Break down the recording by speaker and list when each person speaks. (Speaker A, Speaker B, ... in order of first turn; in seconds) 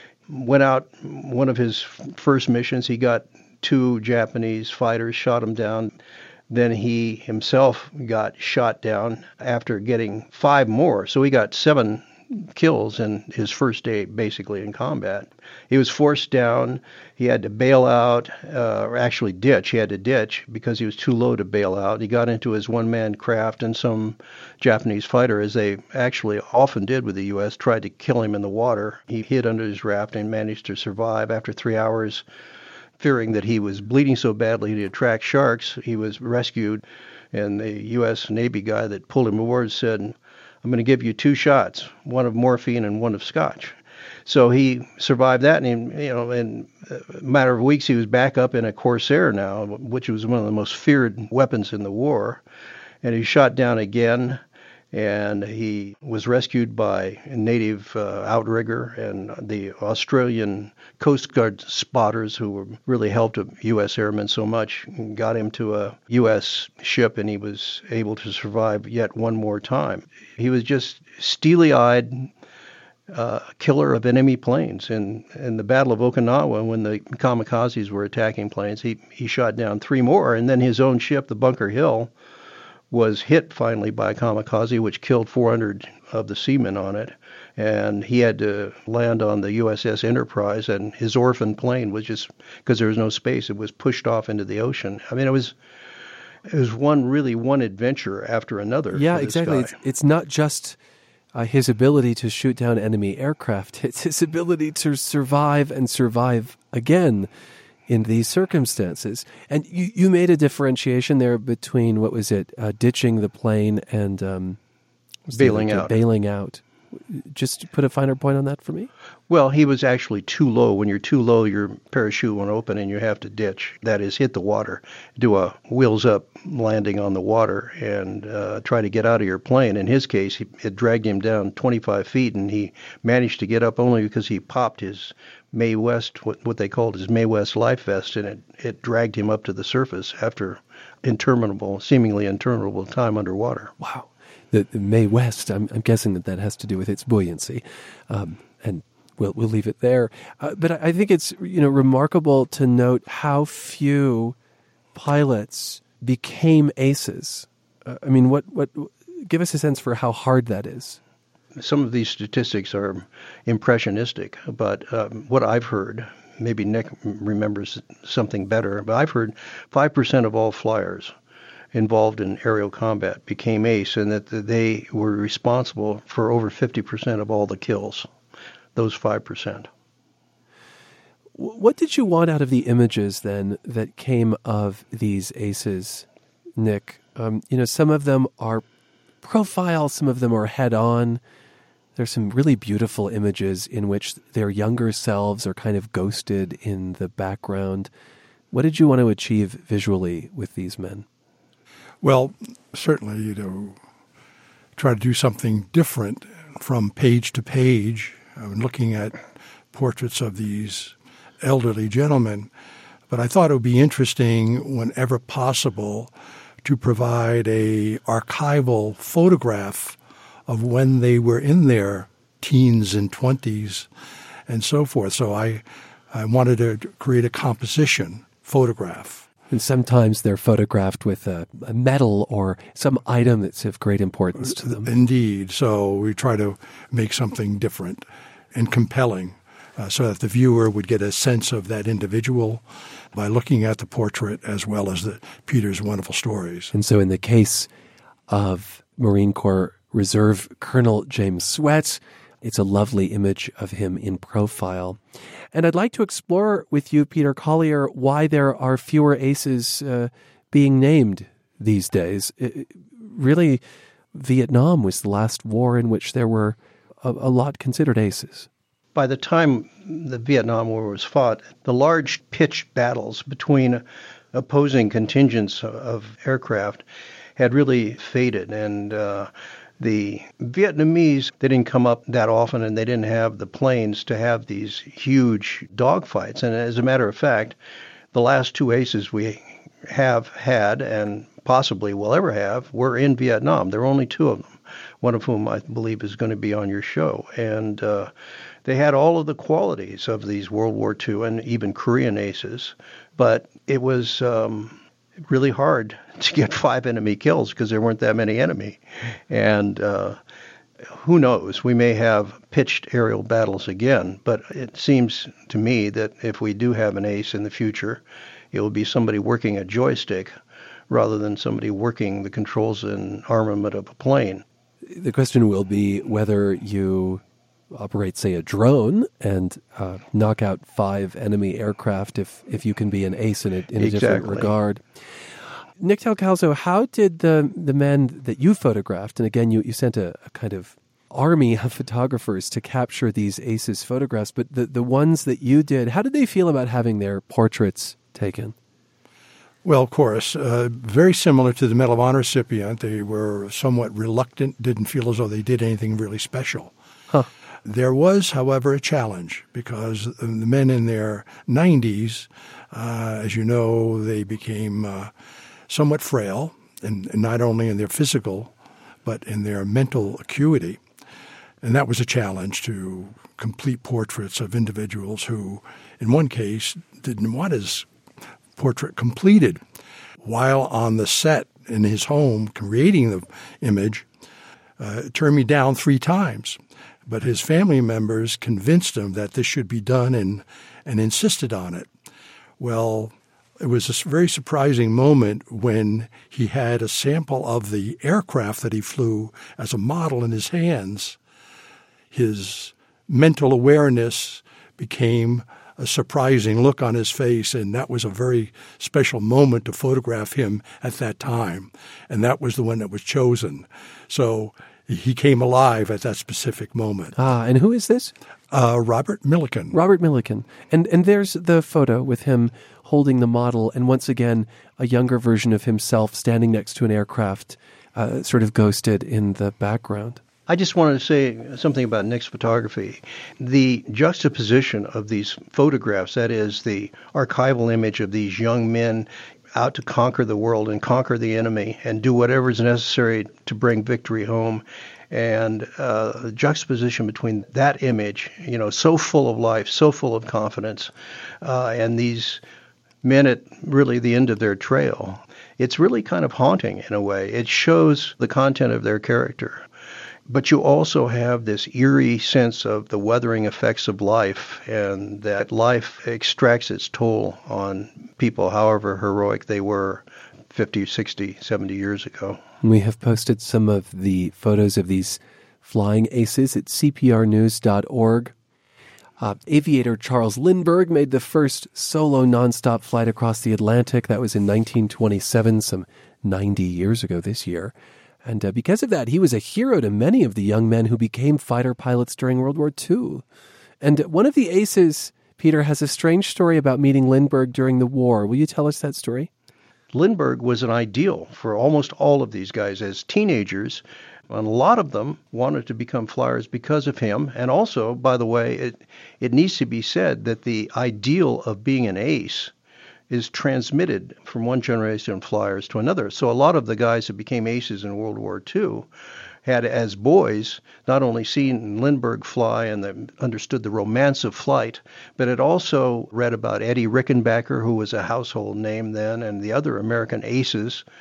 Speaker A: 0.3-5.9, 6.5-32.2, 33.0-52.4, 53.0-54.4, 54.9-72.3, 73.1-82.1, 82.9-95.5, 96.5-99.7, 115.3-116.0, 119.3-143.7, 161.6-171.1, 171.7-178.1, 178.8-179.7, 268.9-276.8, 277.4-287.6, 288.1-298.1, 298.7-310.2, 310.9-320.4, 320.9-324.4, 333.8-334.5, 430.5-450.9, 451.4-452.4, 453.0-459.6, 460.3-472.4, 499.9-512.5, 513.1-518.9, 519.5-530.8
Speaker B: 98.9-100.8, 101.3-107.3, 107.9-114.6, 115.3-118.9, 143.8-154.4, 154.9-161.0, 181.4-186.1, 186.6-188.6, 189.2-191.2, 192.0-197.9, 198.5-201.1, 229.5-234.9, 246.7-247.7, 248.3-255.0, 255.5-263.6, 264.1-268.5, 324.9-334.8, 335.8-348.6, 417.2-418.1, 419.7-430.2, 472.6-478.3, 479.2-493.2, 493.8-499.3
Speaker C: 202.0-203.8, 204.8-209.2, 209.7-212.5, 213.1-223.9, 224.5-229.3, 234.4-246.7, 349.6-356.7, 357.6-365.1, 365.7-368.5, 369.1-370.8, 371.6-377.9, 378.6-379.6, 380.2-384.1, 384.8-391.9, 392.6-401.2, 402.1-417.2, 418.5-419.8